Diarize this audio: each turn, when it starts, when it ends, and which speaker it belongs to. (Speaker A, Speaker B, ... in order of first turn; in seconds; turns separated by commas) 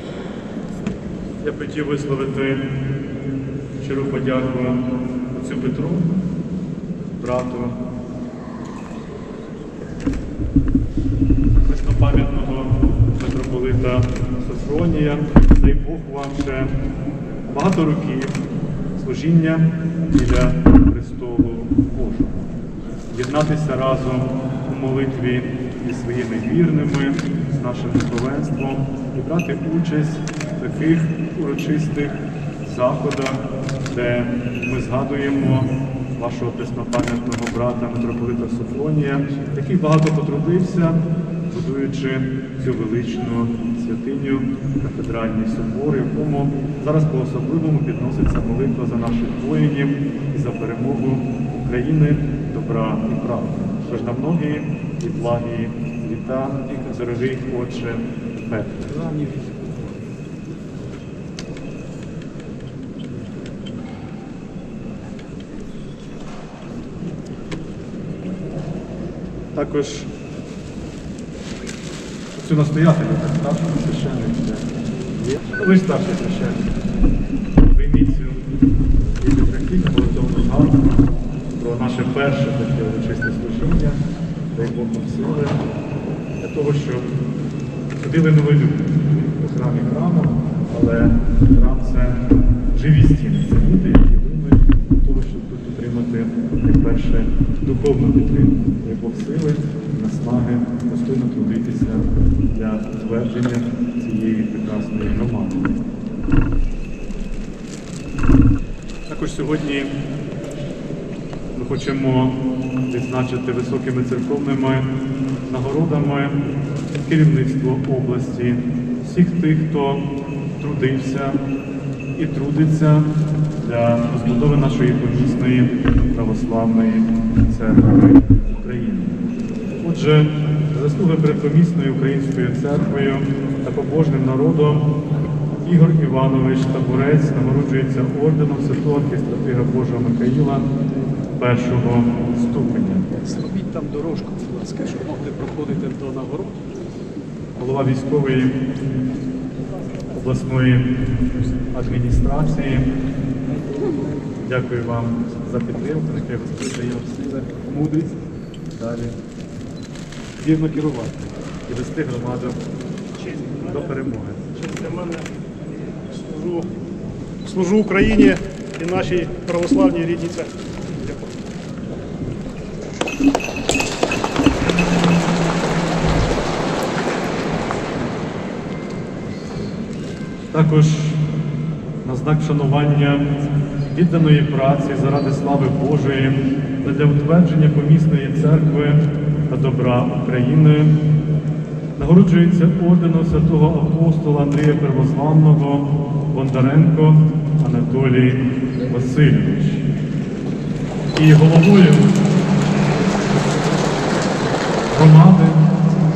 Speaker A: 1.4-2.7, Speaker A: 3.8-6.1, Speaker A: 7.1-7.8, Speaker A: 11.6-16.8, Speaker A: 17.5-18.4, Speaker A: 18.9-22.5, Speaker A: 23.1-59.3, Speaker A: 69.5-70.1, Speaker A: 72.3-76.7, Speaker A: 77.6-78.5, Speaker A: 79.2-80.9, Speaker A: 81.6-84.0, Speaker A: 84.5-85.6, Speaker A: 86.4-87.0, Speaker A: 88.0-105.8, Speaker A: 109.1-110.0, Speaker A: 111.5-114.9, Speaker A: 115.5-116.4, Speaker A: 117.0-120.1, Speaker A: 120.6-121.4, Speaker A: 122.2-123.1, Speaker A: 123.6-129.3, Speaker A: 129.8-134.9, Speaker A: 135.6-140.7, Speaker A: 141.4-143.5, Speaker B: 143.6-144.8, Speaker C: 144.8-145.2, Speaker B: 145.3-146.2, Speaker A: 147.6-148.6, Speaker A: 150.1-150.9, Speaker A: 151.7-152.9, Speaker A: 154.4-159.2, Speaker A: 160.4-162.6, Speaker C: 163.2-163.7, Speaker A: 163.5-164.5, Speaker C: 164.6-166.8, Speaker C: 167.4-171.4, Speaker A: 180.5-181.2, Speaker A: 182.0-190.9, Speaker A: 192.0-199.8, Speaker A: 201.1-202.2, Speaker A: 204.9-205.8